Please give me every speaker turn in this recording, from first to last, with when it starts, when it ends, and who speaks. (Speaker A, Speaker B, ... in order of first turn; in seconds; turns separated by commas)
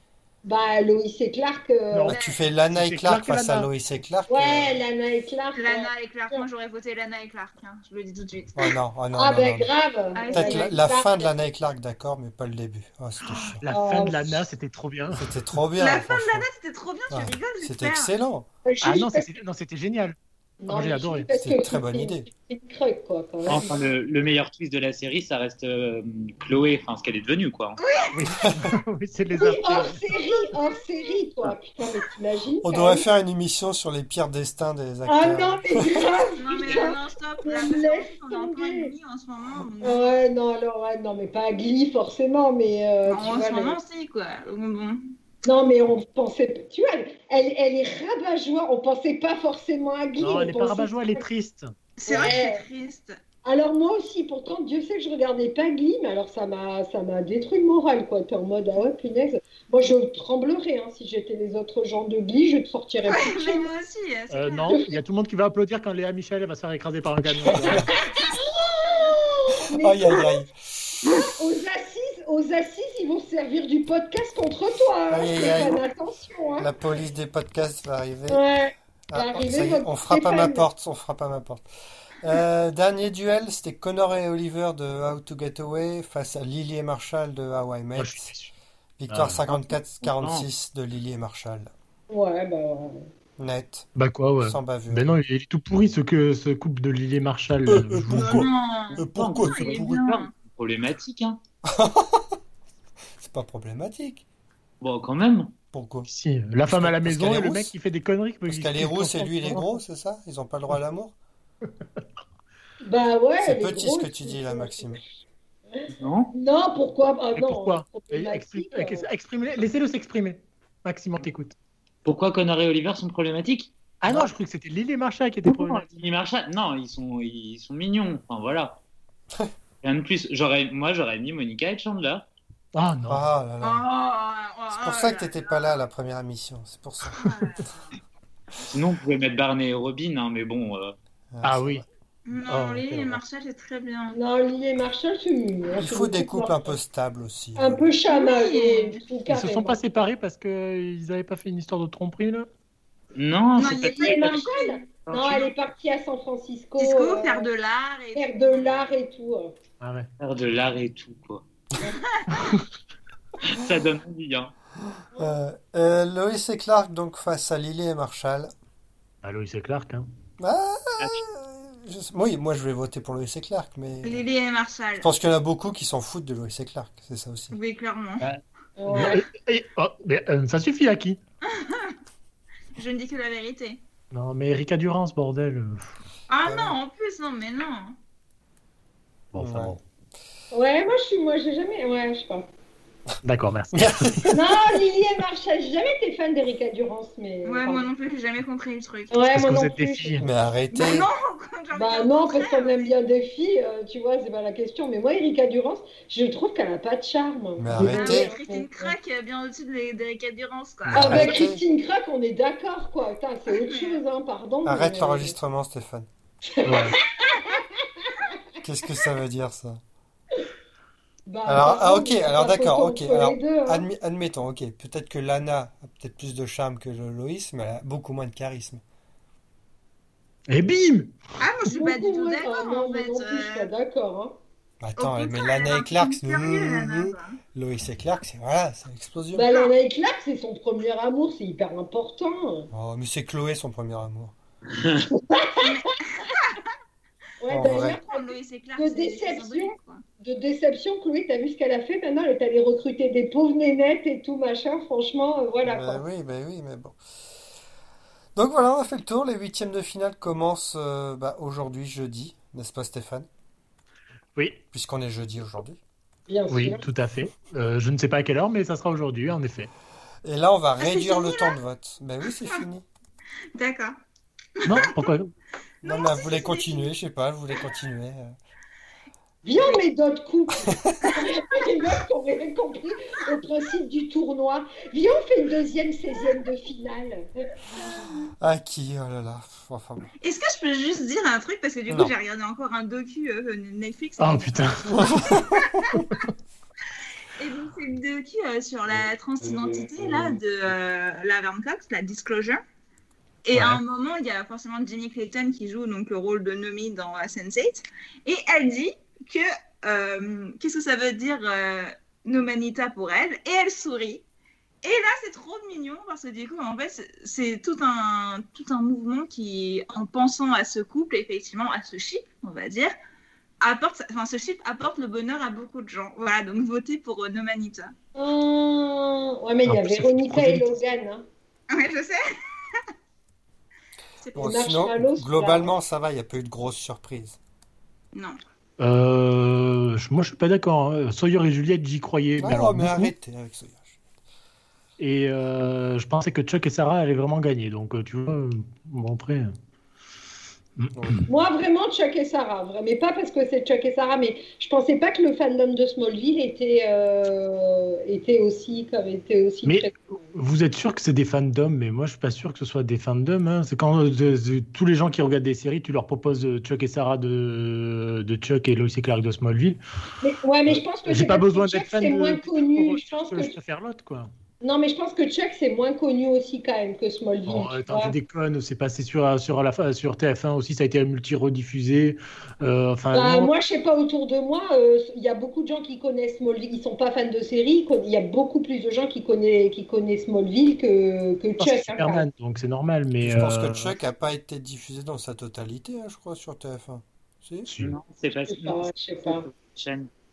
Speaker A: 0.4-2.1, Speaker B: 1.9-2.2, Speaker C: 2.1-4.8, Speaker D: 2.1-2.4, Speaker B: 2.7-3.7, Speaker A: 4.3-6.5, Speaker D: 5.5-8.7, Speaker C: 8.6-9.7, Speaker A: 9.2-11.3, Speaker D: 10.2-10.7, Speaker C: 10.3-13.6, Speaker B: 13.6-15.3, Speaker A: 13.7-14.4, Speaker C: 15.1-16.5, Speaker D: 15.8-18.1, Speaker C: 17.1-18.5, Speaker A: 18.6-19.3, Speaker B: 18.8-20.2, Speaker A: 20.6-23.8, Speaker B: 20.7-21.3, Speaker C: 21.3-22.3, Speaker E: 23.5-27.8, Speaker D: 27.8-28.1, Speaker B: 28.1-30.0, Speaker A: 29.4-33.0, Speaker D: 30.5-30.8, Speaker C: 32.6-35.9, Speaker A: 35.0-38.9, Speaker D: 36.3-40.0, Speaker A: 39.8-43.8, Speaker D: 43.0-45.0, Speaker A: 45.5-51.2, Speaker B: 50.2-51.7, Speaker D: 52.0-53.2, Speaker A: 52.1-52.6, Speaker A: 53.4-63.7, Speaker D: 63.0-64.8, Speaker B: 64.3-67.9, Speaker A: 64.7-65.0, Speaker D: 67.9-68.3, Speaker A: 68.0-70.4, Speaker C: 69.8-70.5, Speaker A: 71.1-76.7, Speaker C: 75.1-75.8, Speaker C: 76.6-78.4, Speaker A: 78.3-80.7, Speaker C: 79.1-81.6, Speaker C: 82.2-88.3, Speaker B: 88.0-88.5, Speaker C: 89.0-91.7, Speaker B: 89.1-89.4, Speaker E: 89.5-90.5, Speaker A: 92.1-93.0, Speaker C: 93.4-93.9, Speaker B: 94.0-98.5, Speaker C: 94.4-95.1, Speaker C: 97.7-100.0, Speaker D: 98.1-100.3, Speaker E: 99.0-101.4, Speaker C: 101.6-102.4, Speaker C: 103.2-104.2, Speaker E: 104.8-105.5, Speaker C: 105.7-106.1, Speaker B: 106.1-109.8, Speaker C: 106.7-107.7, Speaker C: 108.5-111.1, Speaker A: 112.8-115.0, Speaker C: 113.4-115.0, Speaker A: 115.7-119.1, Speaker E: 115.9-116.3, Speaker B: 117.3-121.5, Speaker E: 122.0-123.7, Speaker B: 124.0-126.0, Speaker E: 125.5-128.8, Speaker E: 129.8-132.3, Speaker B: 132.7-133.2, Speaker C: 133.1-133.8, Speaker D: 133.6-135.8, Speaker C: 134.7-137.3, Speaker D: 137.2-137.9, Speaker E: 138.6-140.9, Speaker C: 141.3-141.8, Speaker B: 141.4-141.8, Speaker D: 142.3-144.2, Speaker B: 142.4-143.2, Speaker A: 144.1-146.8, Speaker C: 145.8-147.8, Speaker A: 147.6-149.8, Speaker D: 148.1-149.0, Speaker B: 149.3-152.5, Speaker E: 153.2-154.5, Speaker D: 153.6-154.8, Speaker A: 153.9-157.5, Speaker E: 155.1-155.5, Speaker D: 156.8-158.9, Speaker A: 158.1-159.5, Speaker B: 159.8-160.1, Speaker E: 160.2-161.5, Speaker D: 162.0-162.5, Speaker B: 162.3-162.6, Speaker E: 163.4-164.5, Speaker C: 165.2-168.5, Speaker B: 169.2-170.1, Speaker C: 170.4-174.2, Speaker D: 174.0-175.1, Speaker C: 175.0-177.5, Speaker D: 177.5-178.3, Speaker B: 178.2-181.2, Speaker A: 178.8-179.2, Speaker D: 181.4-181.9, Speaker D: 182.7-183.8, Speaker B: 184.1-186.0, Speaker D: 186.3-187.9, Speaker C: 186.4-186.8, Speaker B: 189.3-189.8, Speaker C: 189.4-189.8, Speaker A: 190.5-192.5, Speaker B: 193.2-194.3, Speaker C: 193.7-194.8, Speaker A: 194.3-197.9, Speaker D: 197.4-199.3, Speaker A: 199.1-200.3, Speaker B: 199.3-200.3, Speaker C: 200.2-201.1, Speaker D: 200.7-202.9, Speaker A: 201.7-208.9, Speaker C: 207.6-208.3, Speaker D: 207.8-211.4, Speaker C: 210.8-211.6, Speaker A: 210.9-215.3, Speaker D: 213.5-214.0, Speaker C: 214.6-216.1, Speaker A: 216.4-218.3, Speaker B: 216.6-216.9, Speaker C: 218.6-219.8, Speaker A: 221.3-223.8, Speaker C: 221.4-228.8, Speaker B: 230.5-231.2, Speaker D: 231.4-233.7, Speaker A: 231.7-234.3, Speaker C: 234.8-239.5, Speaker D: 235.0-237.4, Speaker A: 239.3-242.7, Speaker C: 242.7-244.3, Speaker A: 245.3-245.8, Speaker D: 245.6-246.7, Speaker A: 247.4-256.0, Speaker C: 247.5-248.0, Speaker D: 247.6-250.0, Speaker C: 255.6-257.0, Speaker C: 258.4-263.3, Speaker C: 264.7-265.8, Speaker A: 266.3-266.8, Speaker B: 266.5-269.7, Speaker C: 270.2-272.8, Speaker D: 270.8-271.6, Speaker D: 273.6-273.9, Speaker D: 274.6-275.1, Speaker B: 274.6-275.3, Speaker C: 275.8-278.3, Speaker D: 275.8-276.9, Speaker A: 279.4-287.2, Speaker C: 280.7-281.1, Speaker D: 281.0-281.3, Speaker C: 288.4-290.0, Speaker D: 290.2-294.7, Speaker B: 294.2-296.3, Speaker C: 294.9-295.9, Speaker D: 297.4-302.6, Speaker D: 303.4-314.2, Speaker B: 303.5-303.8, Speaker D: 314.8-322.9, Speaker D: 323.6-327.9, Speaker A: 328.1-331.2, Speaker B: 329.6-330.7, Speaker D: 331.7-332.8, Speaker D: 334.2-334.6, Speaker C: 334.3-337.4, Speaker A: 334.4-335.7, Speaker B: 338.8-343.1, Speaker C: 342.4-344.0, Speaker B: 345.0-349.5, Speaker B: 350.8-351.2, Speaker C: 350.9-351.2, Speaker A: 351.3-360.2, Speaker B: 359.6-369.8, Speaker A: 370.2-373.5, Speaker B: 370.7-374.3, Speaker A: 374.6-378.1, Speaker B: 377.5-383.5, Speaker A: 383.1-392.2, Speaker B: 391.6-394.0, Speaker C: 393.2-397.7, Speaker B: 397.6-397.9, Speaker E: 397.8-400.1, Speaker A: 398.5-399.4